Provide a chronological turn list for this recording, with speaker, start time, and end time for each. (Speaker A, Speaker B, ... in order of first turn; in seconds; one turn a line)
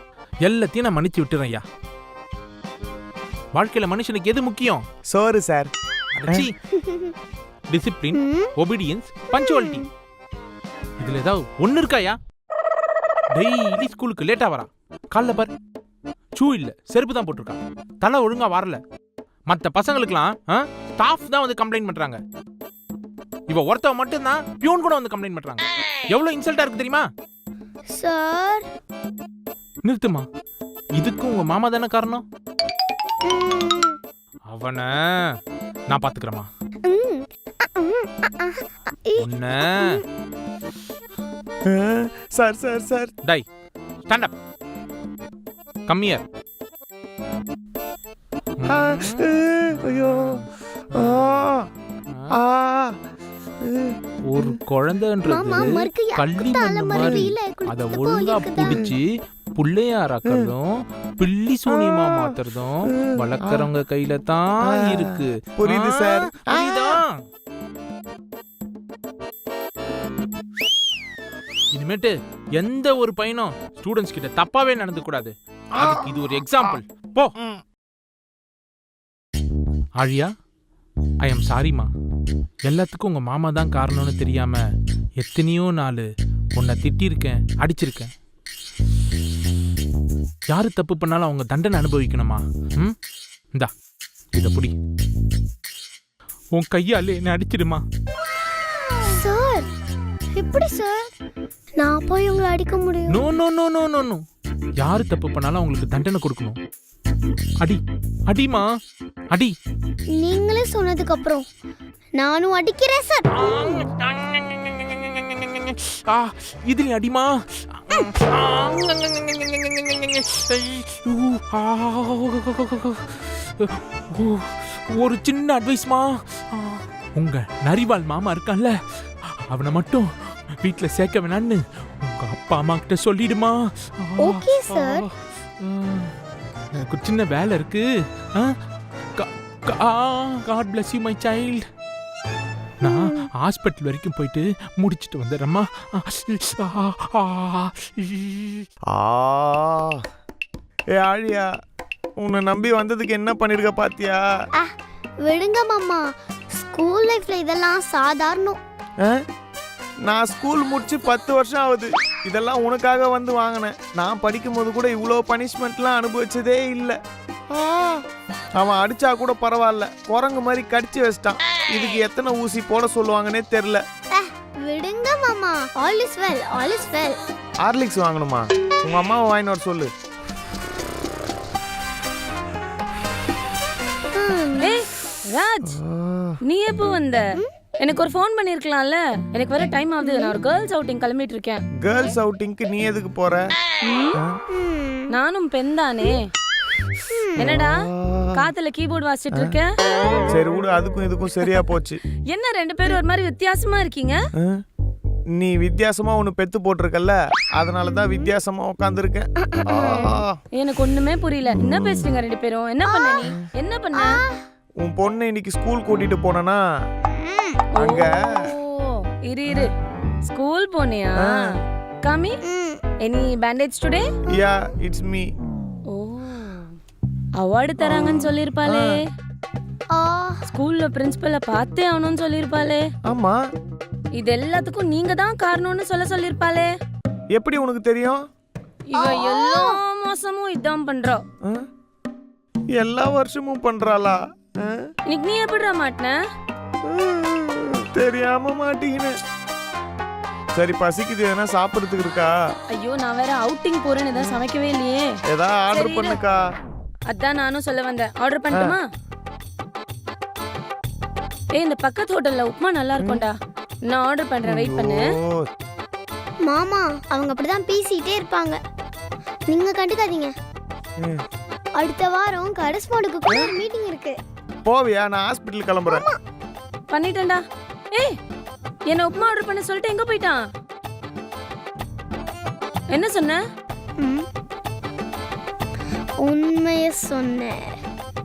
Speaker A: 0.5-1.6
Speaker A: 3.5-4.8
Speaker B: 5.1-5.7
Speaker A: 6.1-6.5
Speaker C: 6.7-7.1
Speaker A: 7.7-9.9
Speaker C: 8.1-8.5
Speaker A: 11.0-12.2
Speaker A: 13.3-15.5
Speaker A: 16.4-18.8
Speaker A: 19.5-22.2
Speaker A: 23.5-27.1
Speaker C: 28.0-28.7
Speaker A: 29.9-30.3
Speaker A: 31.0-32.2
Speaker C: 33.2-34.0
Speaker A: 34.5-35.0
Speaker A: 35.9-36.5
Speaker C: 36.8-40.0
Speaker A: 39.2-40.0
Speaker B: 41.7-43.1
Speaker A: 44.0-44.4
Speaker A: 45.9-46.2
Speaker A: 48.6-49.3
Speaker B: 48.6-51.7
Speaker A: 49.9-50.4
Speaker A: 52.1-52.4
Speaker B: 52.3-53.0
Speaker B: 53.6-54.6
Speaker A: 54.3-67.2
Speaker C: 55.3-58.9
Speaker B: 58.6-58.9
Speaker B: 61.7-62.4
Speaker B: 62.9-63.7
Speaker B: 64.6-67.0
Speaker A: 71.7-77.3
Speaker A: 80.0-80.3
Speaker A: 81.2-81.9
Speaker A: 82.7-84.6
Speaker A: 85.2-88.1
Speaker A: 90.5-93.0
Speaker A: 94.3-94.7
Speaker A: 96.5-97.8
Speaker C: 99.1-99.7
Speaker C: 100.3-101.1
Speaker C: 101.8-103.2
Speaker A: 103.1-104.2
Speaker A: 104.8-106.6
Speaker A: 107.6-108.7
Speaker C: 110.1-111.5
Speaker C: 112.2-113.3
Speaker A: 113.3-128.8
Speaker A: 129.5-130.1
Speaker A: 130.6-136.1
Speaker C: 134.2-135.1
Speaker A: 136.7-138.6
Speaker A: 139.2-141.7
Speaker A: 142.8-148.7
Speaker C: 142.8-143.2
Speaker B: 148.9-150.0
Speaker B: 151.0-151.5
Speaker B: 152.2-154.2
Speaker C: 154.5-158.6
Speaker B: 160.1-167.0
Speaker B: 167.5-168.0
Speaker B: 168.6-173.8
Speaker C: 174.1-177.2
Speaker B: 177.6-179.9
Speaker C: 184.1-184.8
Speaker D: 184.6-185.8
Speaker B: 185.7-186.4
Speaker D: 186.5-187.2
Speaker D: 187.8-191.6
Speaker C: 190.0-190.3
Speaker B: 191.8-193.5
Speaker D: 193.8-194.2
Speaker C: 194.6-195.1
Speaker D: 195.1-196.3
Speaker C: 197.1-197.3
Speaker D: 197.4-197.8
Speaker B: 197.4-198.5
Speaker D: 198.3-199.7
Speaker B: 200.3-202.0
Speaker D: 202.3-204.2
Speaker B: 205.3-210.4
Speaker C: 209.5-210.1
Speaker D: 210.5-214.2
Speaker B: 211.5-212.1
Speaker C: 212.9-213.3
Speaker C: 213.9-214.4
Speaker B: 214.8-216.6
Speaker C: 217.1-217.7
Speaker D: 217.8-219.7
Speaker B: 217.8-218.5
Speaker D: 220.2-222.4
Speaker B: 221.2-221.5
Speaker C: 222.4-222.8
Speaker D: 223.0-224.1
Speaker B: 224.3-225.3
Speaker D: 225.9-226.7
Speaker D: 227.4-229.1
Speaker B: 227.8-228.9
Speaker C: 229.9-230.4
Speaker D: 230.5-232.9
Speaker B: 233.1-233.4
Speaker D: 234.2-236.7
Speaker B: 237.3-238.2
Speaker D: 238.9-241.2
Speaker C: 238.9-239.8
Speaker B: 242.8-244.9
Speaker D: 245.1-246.2
Speaker B: 246.8-249.1
Speaker B: 250.6-252.3
Speaker D: 252.7-255.1
Speaker B: 255.3-256.4
Speaker D: 255.7-256.2
Speaker D: 257.1-258.9
Speaker D: 261.5-265.0
Speaker B: 263.0-263.2
Speaker B: 264.4-265.5
Speaker C: 266.4-268.6
Speaker C: 269.5-270.3
Speaker C: 271.8-274.2
Speaker B: 274.6-276.1
Speaker C: 275.9-276.2
Speaker D: 276.9-277.4
Speaker D: 278.9-280.4
Speaker D: 282.9-283.4
Speaker C: 284.0-284.3
Speaker C: 286.2-287.7